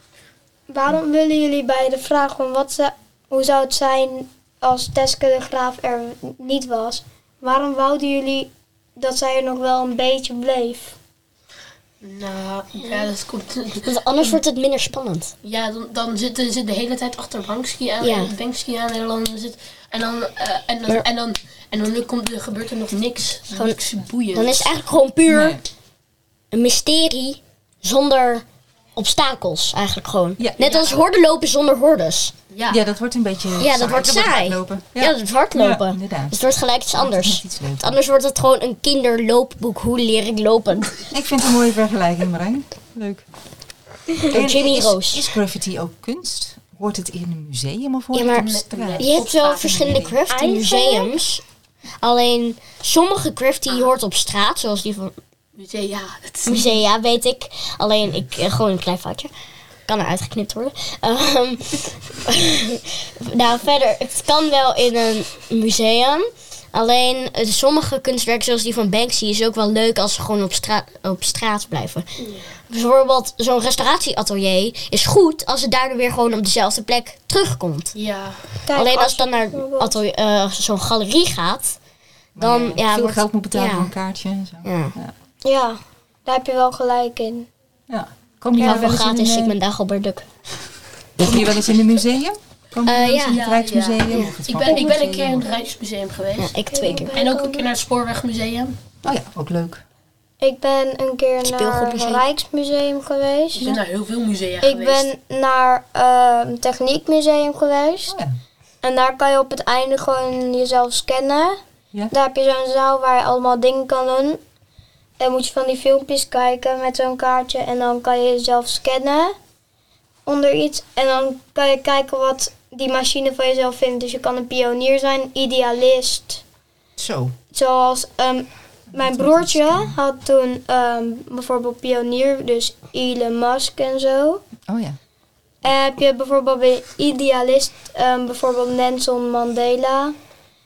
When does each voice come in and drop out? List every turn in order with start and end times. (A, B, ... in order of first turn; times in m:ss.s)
0:00.7-0:10.9 A
0:12.0-0:14.4 B
0:13.8-0:15.3 C
0:15.4-0:24.7 B
0:18.0-0:18.3 C
0:24.3-0:25.6 C
0:25.3-0:25.6 D
0:26.5-0:28.4 C
0:29.0-0:32.3 C
0:30.6-0:31.0 B
0:32.5-0:32.8 B
0:32.7-0:36.4 D
0:33.6-0:41.0 C
0:36.9-0:38.0 D
0:41.1-0:43.2 D
0:44.1-0:45.2 C
0:44.3-0:50.2 D
0:48.1-0:51.4 C
0:48.3-0:50.0 B
0:50.3-0:51.1 A
0:52.0-0:55.2 C
0:55.6-0:56.8 B
0:56.4-0:59.3 C
0:59.9-1:12.1 C
1:12.7-1:17.9 C
1:17.9-1:18.4 B
1:18.7-1:20.0 A
1:18.7-1:21.8 C
1:22.4-1:25.1 D
1:22.4-1:23.9 C
1:24.6-1:25.0 C
1:25.4-1:27.5 A
1:27.9-1:29.6 D
1:28.6-1:30.3 C
1:31.2-1:35.4 D
1:32.8-1:33.4 C
1:33.3-1:38.8 B
1:34.6-1:34.9 A
1:36.4-1:37.2 C
1:36.7-1:37.7 A
1:39.0-1:39.8 D
1:40.4-1:43.8 A
1:41.4-1:42.2 C
1:43.5-1:45.1 B
1:44.6-1:48.1 A
1:48.1-1:48.4 D
1:48.8-1:51.6 A
1:52.1-1:54.4 A
1:55.2-1:59.4 A
2:00.2-2:06.4 A
2:07.0-2:07.4 D
2:07.5-2:14.4 A
2:08.9-2:10.0 D
2:14.7-2:15.0 D
2:15.6-2:20.1 A